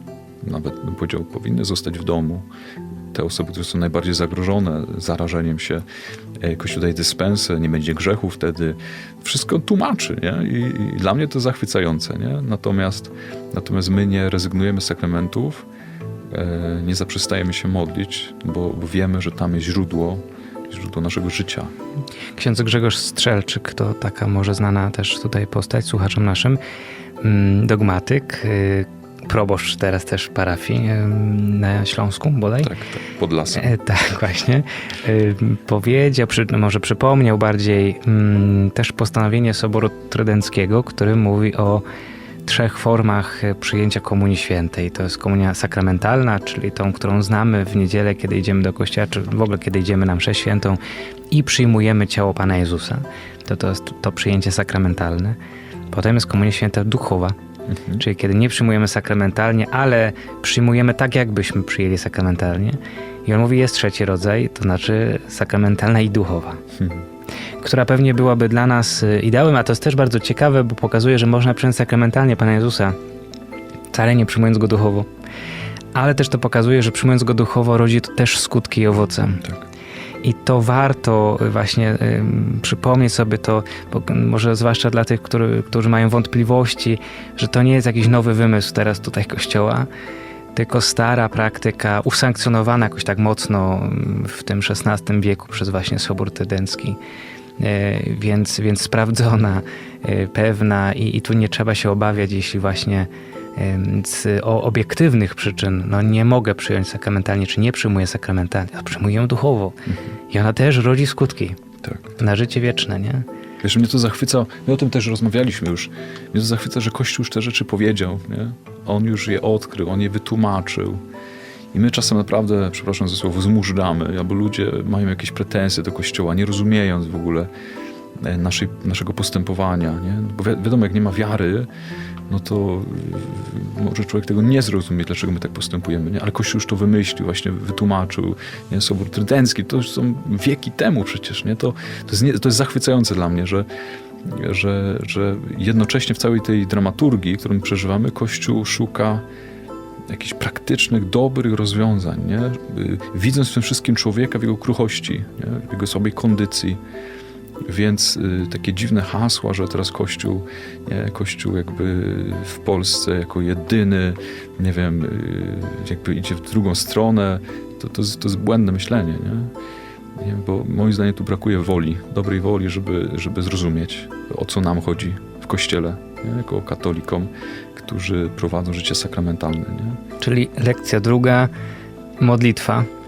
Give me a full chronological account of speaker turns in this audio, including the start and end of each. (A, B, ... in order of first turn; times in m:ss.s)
0:00.4-0:02.5 A
0:03.1-0:05.8 A
0:06.4-0:15.7 A
0:16.3-0:21.7 A
0:22.3-0:26.6 B
0:27.2-0:32.7 B
0:32.6-0:33.7 A
0:33.5-0:41.8 B
0:42.4-0:50.8 B
0:51.3-0:55.4 B
0:55.9-0:57.3 B
0:57.7-0:58.0 A
0:58.0-1:06.6 B
1:06.8-1:07.0 A
1:07.6-1:12.9 B
1:13.9-1:15.1 B
1:15.9-1:19.5 B
1:20.2-1:29.9 B
1:30.5-1:37.0 B
1:37.6-1:49.8 B
1:50.3-1:51.6 B
1:51.8-1:52.1 A
1:52.2-1:53.2 B
1:53.6-2:01.0 A
2:01.7-2:07.5 A
2:08.2-2:11.7 A
2:12.3-2:23.7 A
2:24.2-2:29.2 A
2:30.1-2:36.8 A
2:37.6-2:49.5 A
2:50.2-3:00.0 A
3:00.2-3:01.5 B
3:02.2-3:02.9 B